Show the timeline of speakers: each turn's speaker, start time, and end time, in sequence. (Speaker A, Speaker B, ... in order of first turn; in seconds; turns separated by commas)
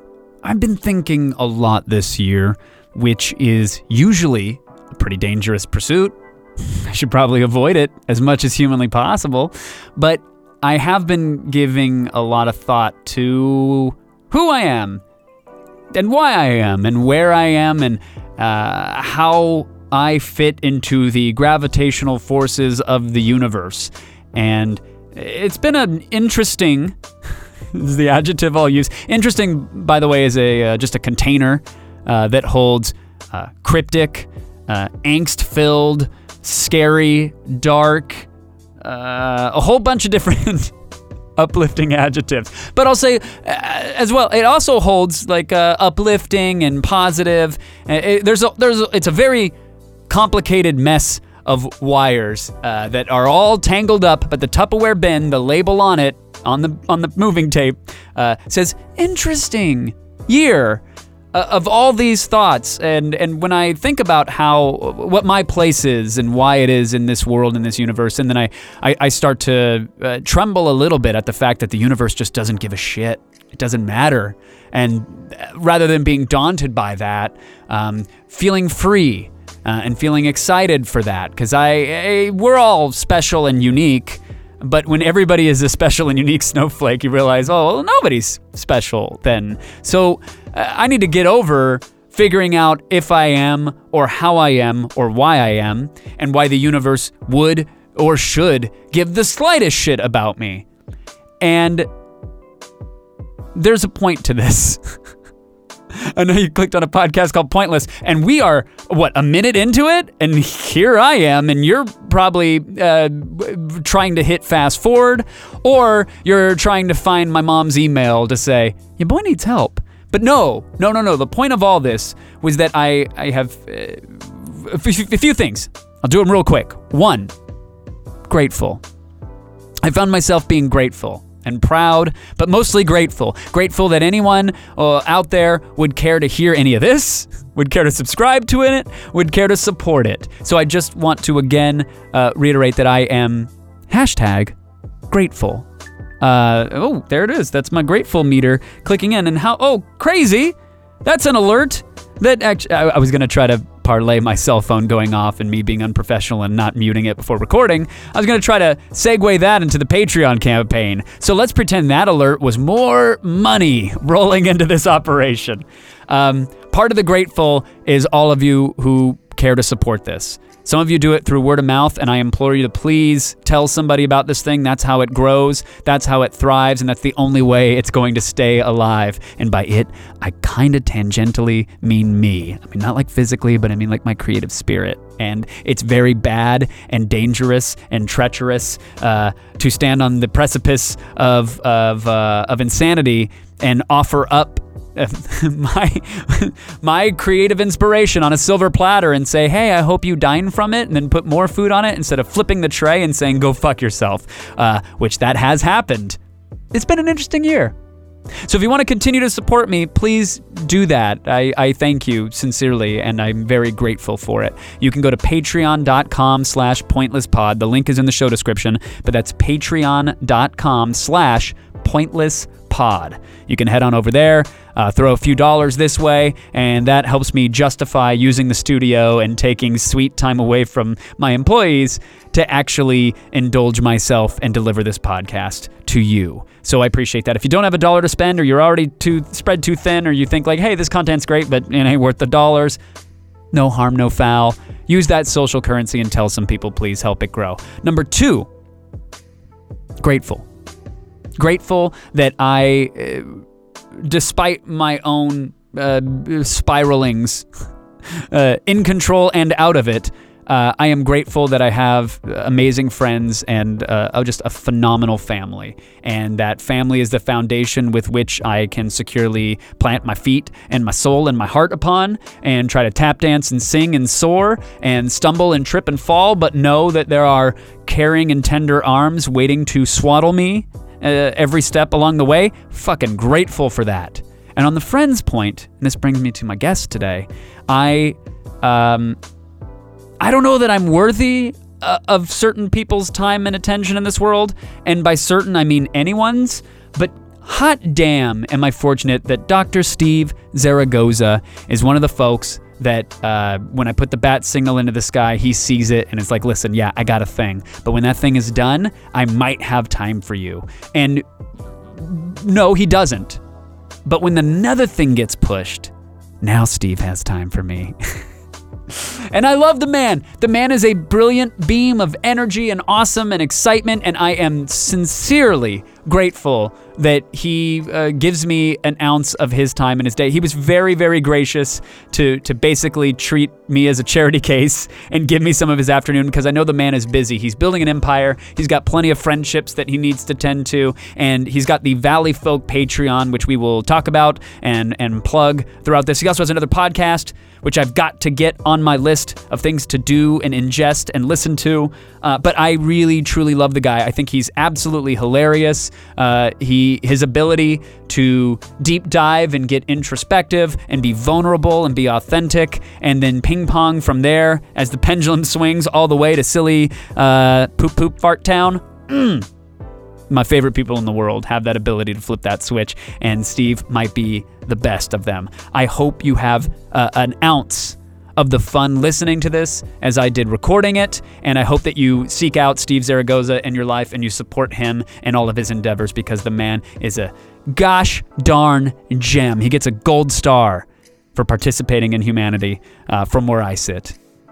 Speaker A: 0.4-15.0, Speaker A: 15.9-27.0, Speaker A: 27.7-38.3, Speaker A: 38.8-40.8, Speaker A: 41.4-49.6, Speaker A: 50.1-100.7, Speaker A: 101.4-101.9, Speaker A: 103.5-104.8, Speaker A: 106.0-127.3, Speaker A: 128.3-128.8, Speaker A: 129.8-144.6, Speaker A: 145.1-145.7, Speaker A: 146.2-206.2, Speaker A: 206.7-207.7, Speaker A: 208.5-242.8, Speaker A: 243.5-248.5, Speaker A: 250.0-250.5, Speaker A: 251.4-253.4, Speaker A: 254.1-257.5, Speaker A: 258.2-289.2, Speaker A: 290.2-311.2, Speaker A: 311.9-313.4, Speaker A: 314.1-318.2, Speaker A: 318.9-369.5, Speaker A: 370.3-394.2